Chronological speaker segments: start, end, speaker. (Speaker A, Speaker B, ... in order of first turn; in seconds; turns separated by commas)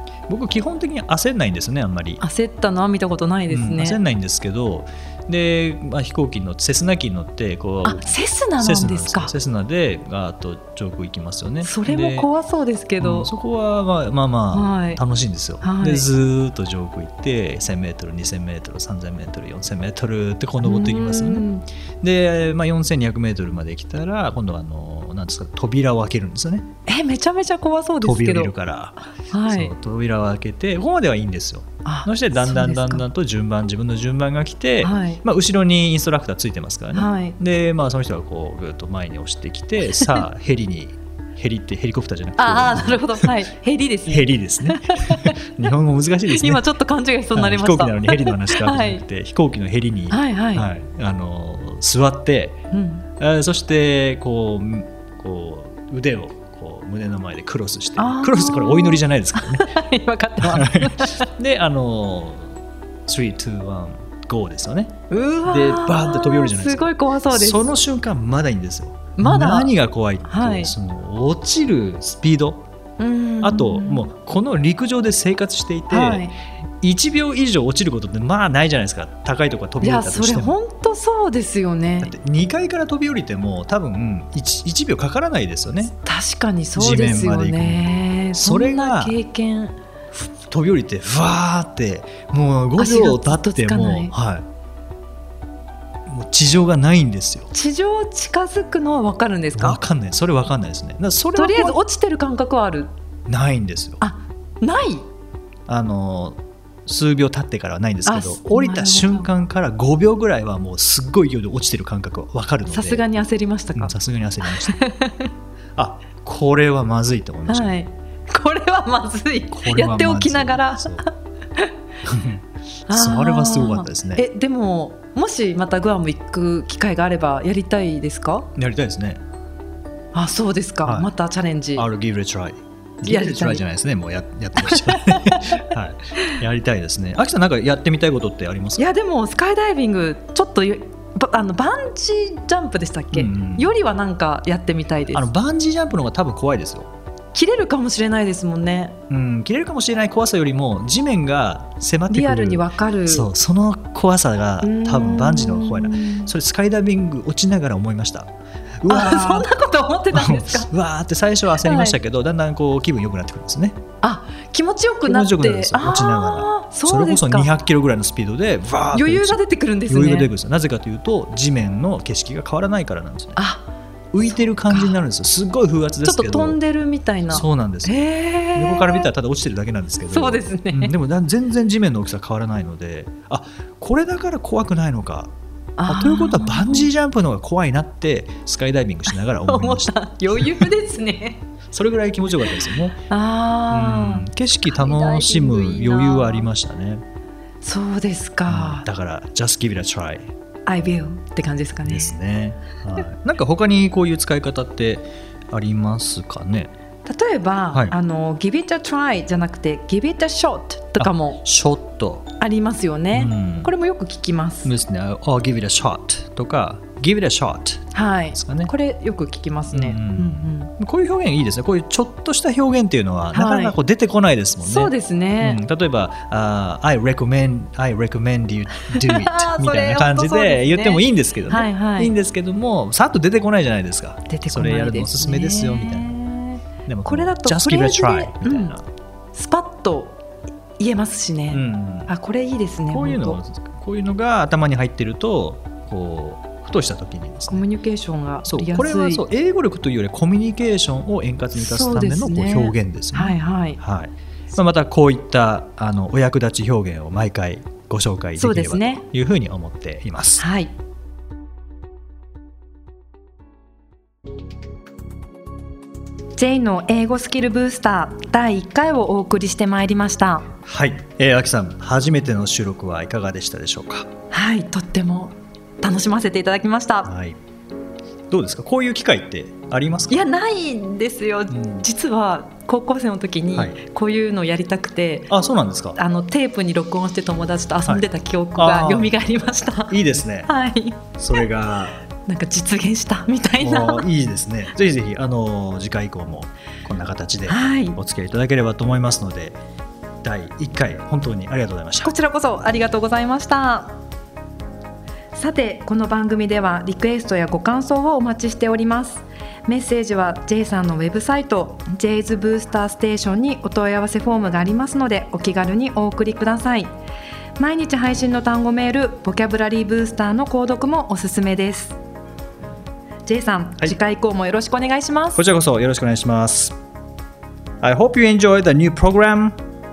Speaker A: 0.3-2.2, Speaker B: 2.2-4.0, Speaker A: 3.5-12.3, Speaker B: 7.8-9.3, Speaker B: 11.6-13.3, Speaker A: 13.0-21.5, Speaker B: 14.5-15.0, Speaker B: 15.6-16.1, Speaker B: 20.6-21.6, Speaker A: 22.0-26.7, Speaker B: 26.9-28.5, Speaker A: 28.0-29.0, Speaker B: 29.3-29.7, Speaker A: 29.5-43.3, Speaker B: 31.9-33.0, Speaker B: 34.8-35.2, Speaker B: 36.9-37.4, Speaker B: 42.4-45.5, Speaker A: 44.1-46.6, Speaker B: 46.3-49.0, Speaker A: 47.4-52.6, Speaker B: 50.1-50.7, Speaker B: 52.7-53.0, Speaker A: 53.2-59.7, Speaker B: 58.0-61.3, Speaker A: 60.4-62.5, Speaker A: 63.1-72.6, Speaker B: 65.1-67.7, Speaker B: 69.2-69.7, Speaker B: 70.2-70.7, Speaker B: 73.0-74.1, Speaker A: 73.4-76.3, Speaker B: 75.9-76.4, Speaker A: 76.8-80.6, Speaker B: 79.8-82.1, Speaker A: 82.0-85.9, Speaker B: 86.0-89.8, Speaker A: 86.8-89.2, Speaker A: 90.5-94.5, Speaker B: 92.8-94.1, Speaker A: 96.1-97.5, Speaker B: 97.5-99.8, Speaker A: 99.5-101.8, Speaker B: 101.3-102.9, Speaker A: 103.3-104.0, Speaker B: 104.0-105.0, Speaker A: 105.7-113.0, Speaker B: 108.1-109.3, Speaker B: 112.7-113.9, Speaker A: 113.8-114.8, Speaker B: 114.5-115.3, Speaker A: 115.8-117.7, Speaker B: 117.5-121.7, Speaker A: 119.5-121.0, Speaker A: 122.0-124.2, Speaker B: 122.9-128.5, Speaker A: 128.6-129.2, Speaker B: 130.1-131.9, Speaker A: 130.8-131.1, Speaker A: 131.8-138.9, Speaker B: 133.0-133.6, Speaker B: 134.6-135.7, Speaker B: 138.8-145.3, Speaker A: 143.1-143.7, Speaker A: 145.1-146.9, Speaker B: 147.3-149.0, Speaker A: 149.1-159.5, Speaker B: 152.1-153.3, Speaker B: 154.6-156.3, Speaker B: 158.9-160.7, Speaker A: 160.1-163.8, Speaker B: 161.6-162.0, Speaker B: 164.0-167.5, Speaker A: 165.0-173.4, Speaker B: 168.9-170.3, Speaker B: 173.4-173.7, Speaker A: 174.1-176.6, Speaker B: 174.3-175.0, Speaker B: 176.0-179.1, Speaker A: 177.3-185.3, Speaker B: 180.1-180.9, Speaker B: 185.8-186.9, Speaker A: 185.9-190.7, Speaker B: 189.1-191.4, Speaker A: 191.7-193.0, Speaker B: 193.1-196.5, Speaker A: 193.7-197.0, Speaker B: 197.6-198.9, Speaker A: 198.5-200.3, Speaker B: 200.7-202.1, Speaker A: 201.8-206.7, Speaker B: 207.1-211.4, Speaker A: 211.0-212.3, Speaker B: 212.4-214.7, Speaker A: 213.1-213.7, Speaker A: 214.7-217.8, Speaker B: 217.9-220.7, Speaker A: 218.4-218.7, Speaker A: 219.7-236.2, Speaker B: 223.3-223.8, Speaker B: 224.6-225.6, Speaker B: 228.9-232.1, Speaker B: 234.3-238.7, Speaker A: 236.8-238.8, Speaker B: 239.3-240.2, Speaker B: 240.8-243.4, Speaker A: 241.5-242.1, Speaker A: 242.9-247.6, Speaker B: 247.5-249.2, Speaker A: 248.4-260.5, Speaker B: 251.6-253.8, Speaker B: 258.4-259.0, Speaker B: 260.4-260.7, Speaker B: 266.4-270.5, Speaker A: 270.6-274.1, Speaker B: 274.3-277.1, Speaker A: 277.1-277.4, Speaker A: 278.3-280.2, Speaker B: 280.1-285.3, Speaker A: 281.5-281.9, Speaker A: 285.3-286.0, Speaker B: 286.0-291.4, Speaker A: 288.6-289.1, Speaker A: 289.9-290.5, Speaker A: 291.2-292.0, Speaker B: 292.3-294.1, Speaker A: 293.6-299.6, Speaker B: 297.5-298.0, Speaker A: 300.2-302.1, Speaker B: 302.0-304.0, Speaker B: 305.3-316.9, Speaker B: 317.6-322.0, Speaker B: 323.3-325.4, Speaker A: 325.4-326.8, Speaker A: 327.8-329.6